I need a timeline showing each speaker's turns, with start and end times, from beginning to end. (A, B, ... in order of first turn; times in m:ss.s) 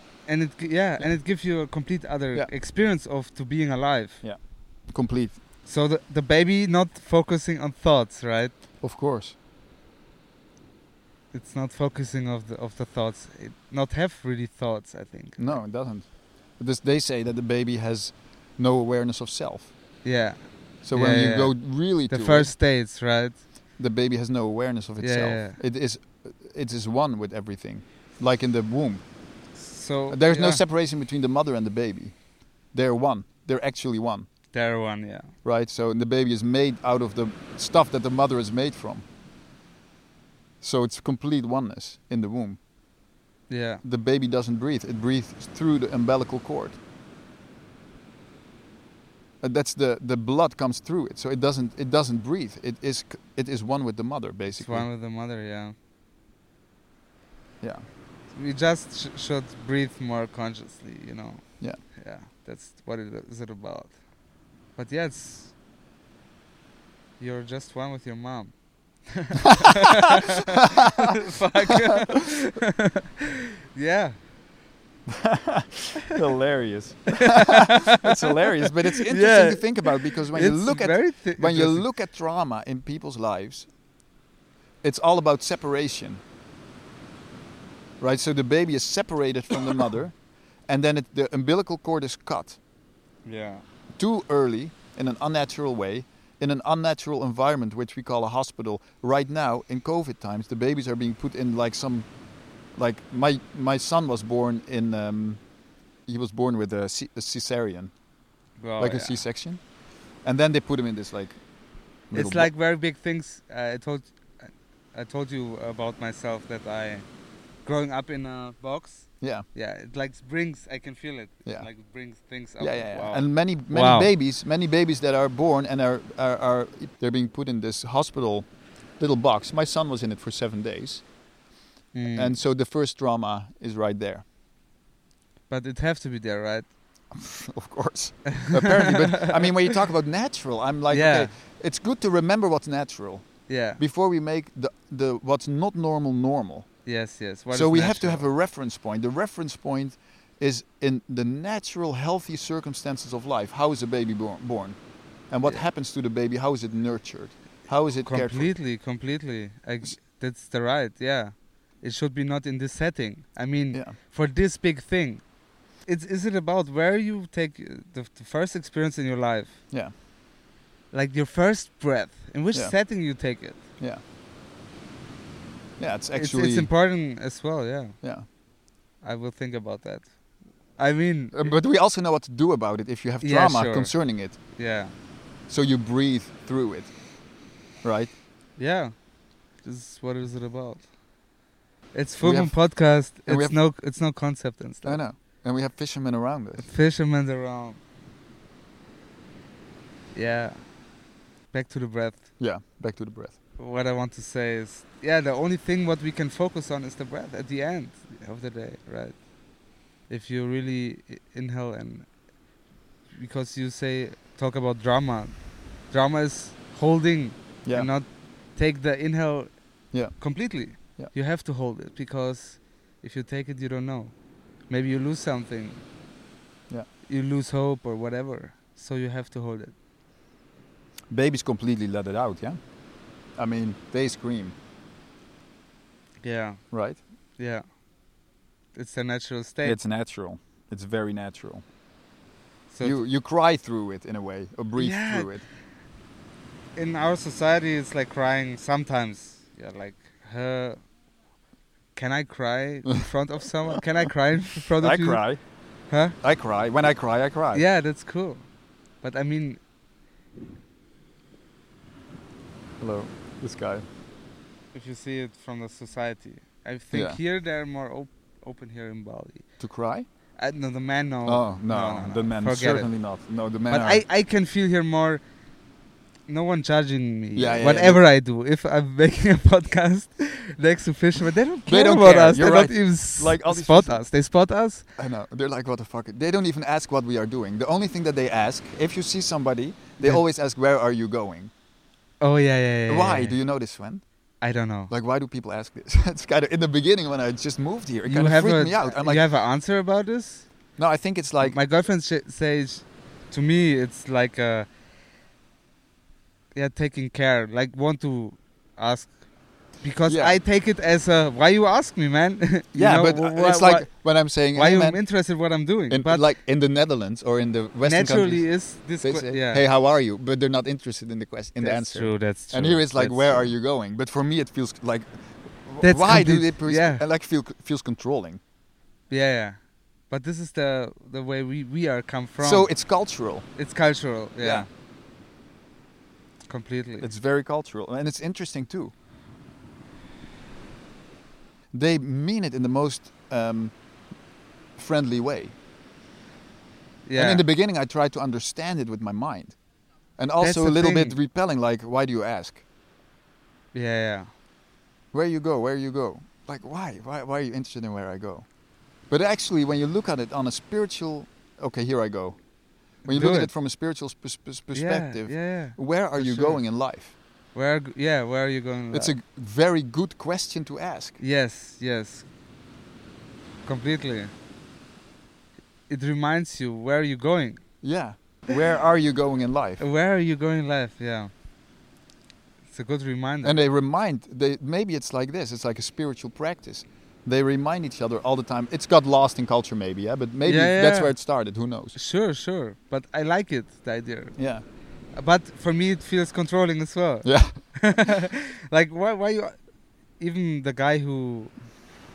0:00.2-0:04.2 A
0:04.2-0:05.4 B
0:05.6-0:08.5 A
0:08.8-0:09.3 B
0:11.3-0:15.6 A
0:15.4-0:19.7 B
0:20.0-0:23.4 A
0:20.8-0:22.5 B
0:23.8-0:29.0 B
0:25.0-0:25.6 A
0:29.5-0:30.6 A
0:30.1-0:32.2 B
0:32.7-0:34.3 B
0:34.5-0:35.3 A
0:35.4-0:39.0 B
0:40.6-0:42.6 B
0:43.5-0:43.8 A
0:43.8-0:46.8 B
0:49.4-0:54.9 B
0:54.5-0:55.7 A
0:58.3-1:04.0 A
1:04.8-1:05.5 A
1:07.2-1:13.1 A
1:10.6-1:11.2 B
1:13.7-1:14.2 A
1:15.1-1:23.7 B
1:17.2-1:21.8 A
1:24.8-1:26.2 B
1:28.0-1:30.1 B
1:30.7-1:32.6 B
1:33.2-1:33.6 A
1:34.0-1:42.1 B
1:42.8-1:45.4 B
1:46.0-1:47.9 B
1:48.6-1:49.2 A
1:48.8-1:49.6 B
1:50.2-1:51.4 B
1:52.1-1:52.5 B
1:52.1-1:57.0 A
1:57.6-2:04.1 A
1:59.2-1:59.4 B
2:02.6-2:08.5 B
2:09.0-2:11.0 B
2:11.9-2:12.4 A
2:12.1-2:14.2 B
2:15.5-2:16.7 A
2:17.1-2:26.7 B
2:18.3-2:19.5 A
2:20.9-2:21.3 A
2:23.5-2:23.8 A
2:26.8-2:28.3 A
2:27.5-2:38.5 B
2:38.0-2:45.2 A
2:45.8-2:49.6 A
2:50.9-2:53.6 A
2:52.5-2:52.8 B
2:55.8-2:56.7 B
2:56.1-2:58.0 A
2:59.0-3:01.6 A
3:01.3-3:04.4 B
3:03.2-3:04.9 A
3:05.5-3:07.0 B
3:07.8-3:08.1 B
3:08.6-3:08.9 A
3:09.6-3:10.9 A
3:11.9-3:15.0 A
3:12.2-3:13.6 B
3:14.8-3:16.7 B
3:16.6-3:17.8 A
3:20.1-3:20.7 A
3:21.5-3:22.3 A
3:22.4-3:23.4 B
3:23.6-3:29.2 A
3:30.1-3:32.1 A
3:33.1-3:39.5 A
3:39.9-3:40.2 B
3:40.1-3:44.1 A
3:44.7-3:45.8 A
3:47.0-3:49.7 A
3:51.1-3:52.6 B
3:53.4-3:54.5 B
3:56.2-3:56.6 A
3:56.7-3:57.0 B
3:57.4-3:57.6 A
3:58.7-3:59.8 A
3:59.6-4:01.6 B
4:02.7-4:03.0 A
4:02.8-4:05.4 B
4:04.8-4:05.3 A
4:06.8-4:10.8 A
4:11.9-4:15.2 A
4:14.8-4:15.4 B
4:15.9-4:16.1 A
4:16.2-4:17.6 B
4:17.5-4:18.4 A
4:19.0-4:19.6 A
4:22.8-4:23.8 B
4:24.7-4:29.4 A
4:26.9-4:27.2 B
4:29.6-4:30.1 B
4:30.4-4:32.9 A
4:31.2-4:34.0 B
4:33.7-4:35.2 A
4:36.3-4:44.9 A
4:37.4-4:38.0 B
4:41.7-4:44.0 B
4:45.0-4:51.5 B
4:52.2-4:53.4 A
4:52.9-4:54.0 B
4:54.4-4:54.9 A
4:54.9-4:59.2 B
4:58.0-5:00.5 A
5:00.8-5:01.6 B
5:01.4-5:04.7 A
5:06.5-5:09.2 A
5:09.8-5:13.9 A
5:10.1-5:10.4 B
5:12.7-5:15.1 B
5:14.5-5:16.3 A
5:15.9-5:28.4 B
5:17.8-5:19.6 A
5:21.6-5:23.5 A
5:25.8-5:27.0 A
5:29.1-5:32.7 A
5:32.4-5:33.5 B
5:33.6-5:34.7 A
5:34.4-5:34.7 B
5:36.5-5:37.1 A
5:37.0-5:38.9 B
5:41.7-5:43.7 B
5:44.8-5:45.5 B
5:47.0-5:47.4 A
5:47.1-5:49.6 B
5:50.2-5:52.6 B
5:50.4-5:51.2 A
5:53.7-5:54.3 A
5:55.1-5:58.5 B
5:59.1-6:02.4 B
6:03.0-6:07.1 B
6:03.0-6:03.5 A
6:04.7-6:06.6 A
6:07.5-6:09.1 A
6:08.9-6:11.2 B
6:11.2-6:12.3 A
6:13.6-6:14.3 A
6:15.9-6:17.6 A
6:17.8-6:19.8 B
6:19.8-6:21.3 A
6:22.7-6:23.6 A
6:23.4-6:32.0 B
6:30.4-6:31.2 A
6:31.9-6:34.4 A
6:34.4-6:34.6 B
6:35.1-6:39.6 A
6:37.2-6:38.1 B
6:40.2-6:41.5 A